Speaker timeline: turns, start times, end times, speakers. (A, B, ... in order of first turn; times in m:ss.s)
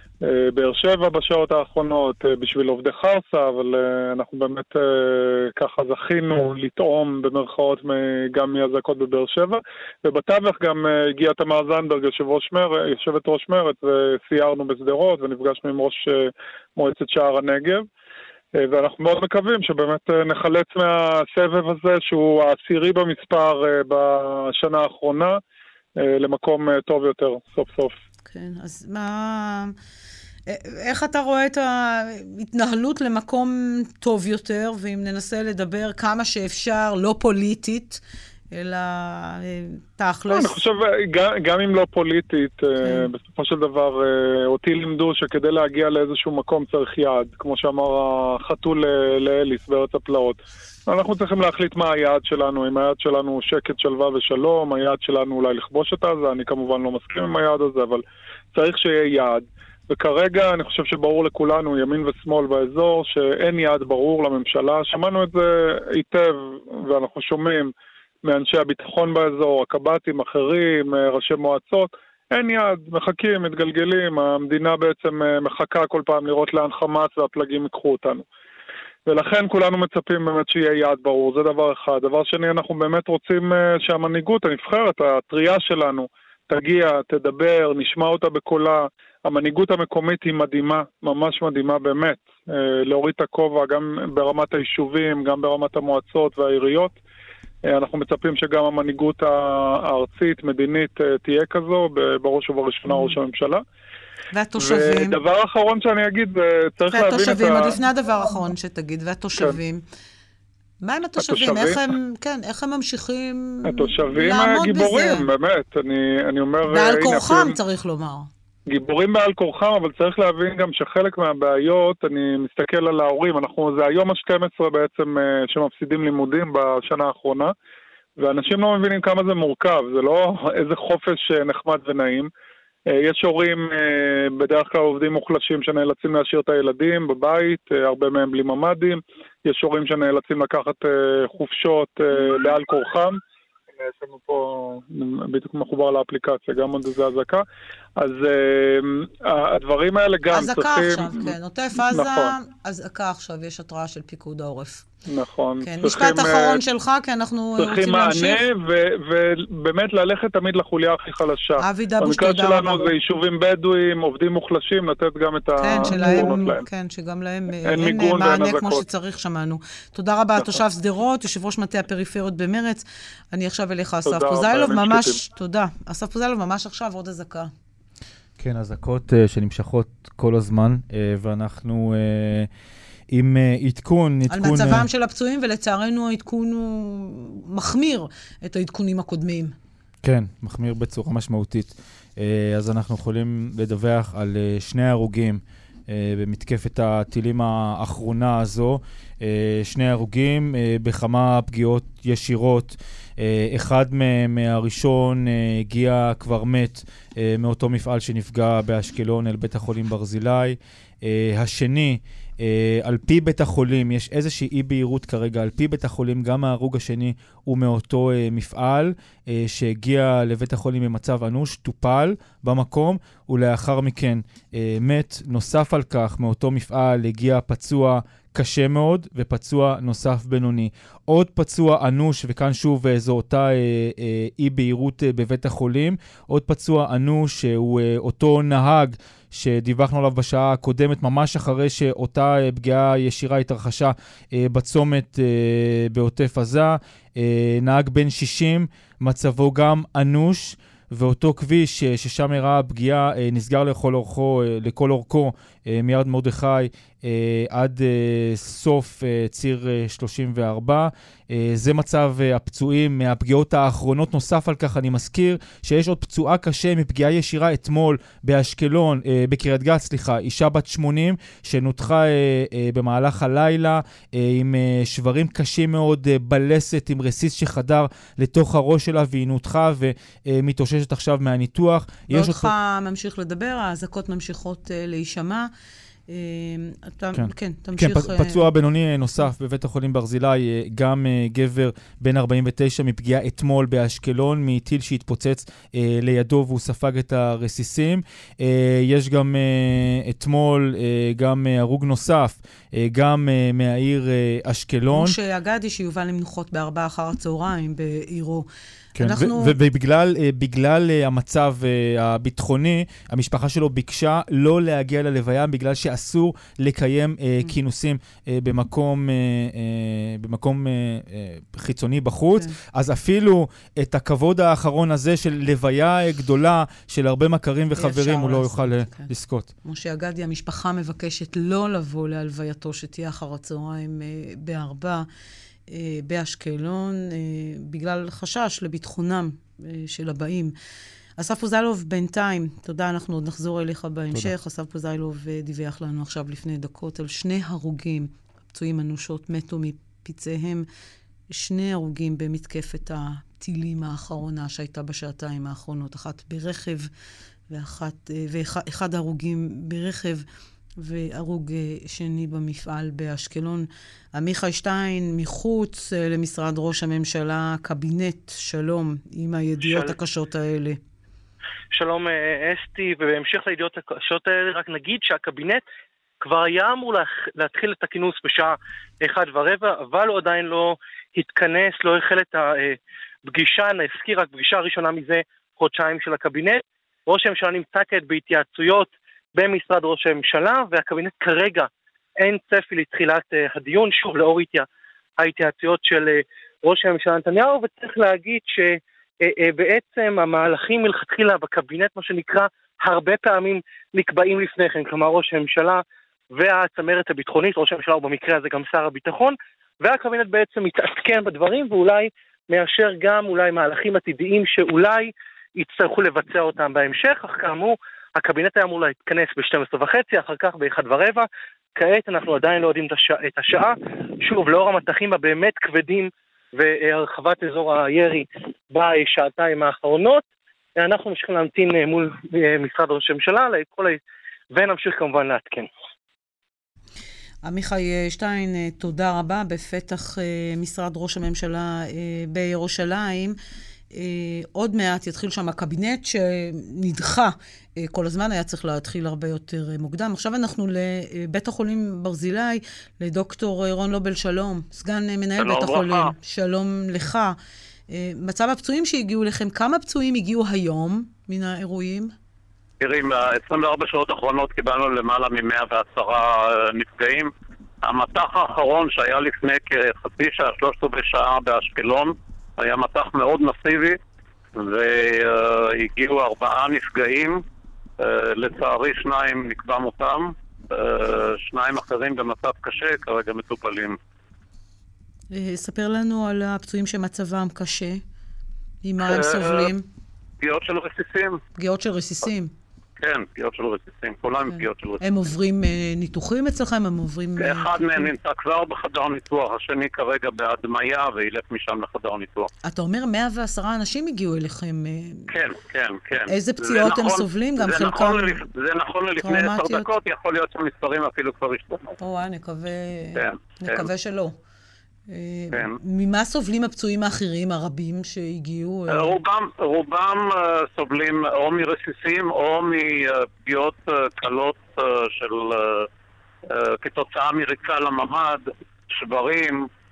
0:00.2-0:17.9 A
0:18.6-0:25.4 A
0:26.0-0:28.0 A
0:28.3-0:29.7 B
0:30.5-0:38.0 B
0:38.5-0:40.6 B
0:40.3-0:58.0 A
0:58.5-1:07.7 A
1:08.2-1:18.2 A
1:19.1-1:37.0 A
1:37.7-1:43.6 A
1:42.9-1:43.1 B
1:44.3-1:45.1 B
1:44.6-1:47.8 A
1:46.9-1:49.8 B
1:50.8-1:55.3 B
1:51.2-1:51.8 A
1:53.7-1:57.6 A
1:56.7-1:58.3 B
1:58.7-2:07.5 A
2:08.2-2:12.3 A
2:12.9-2:23.2 A
2:23.8-2:27.4 A
2:28.0-2:32.3 A
2:30.3-2:34.9 B
2:35.1-2:36.6 A
2:35.6-2:38.4 B
2:37.6-2:46.6 A
2:41.6-2:42.9 B
2:45.6-2:57.5 B
2:47.7-2:48.9 A
2:50.4-2:50.6 A
2:54.1-2:55.2 A
2:58.4-3:02.5 C
3:03.1-3:04.9 C
3:04.3-3:09.5 B
3:10.0-4:42.5 C
4:42.1-4:45.5 B
4:46.1-4:48.5 B
4:47.2-5:05.2 C
5:04.9-5:08.5 B
5:09.0-5:29.5 C
5:09.0-5:09.5 B
5:27.8-5:29.1 B
5:29.6-5:35.0 B
5:35.7-5:40.5 B
5:41.2-5:50.7 B
5:51.3-5:56.9 B
5:57.5-6:00.2 B
6:00.8-6:10.8 B
6:09.6-6:09.9 D
6:11.7-6:15.6 D
6:16.2-6:22.8 D
6:23.3-6:34.7 D
6:35.2-6:45.8 D
6:46.3-7:14.0 D
7:14.5-7:15.7 D
7:17.4-7:23.4 B
7:23.9-7:37.4 B
7:35.4-7:36.1 E
7:37.9-7:42.1 B
7:42.8-7:47.3 E
7:47.8-7:54.0 E
7:54.6-7:57.4 E
7:58.0-8:04.0 E
8:05.3-8:08.0 B
8:08.8-8:09.8 B
8:09.0-8:09.8 E
8:10.4-8:11.4 E
8:11.6-8:12.5 B
8:13.0-8:15.0 E
8:14.5-8:18.1 B
8:17.4-8:22.5 E
8:22.6-8:25.3 B
8:25.3-8:31.9 E
8:26.3-8:28.5 B
8:29.2-8:29.9 B
8:32.0-8:34.4 B
8:33.2-8:33.9 E
8:35.1-8:39.2 B
8:38.9-8:45.9 E
8:46.5-8:49.7 E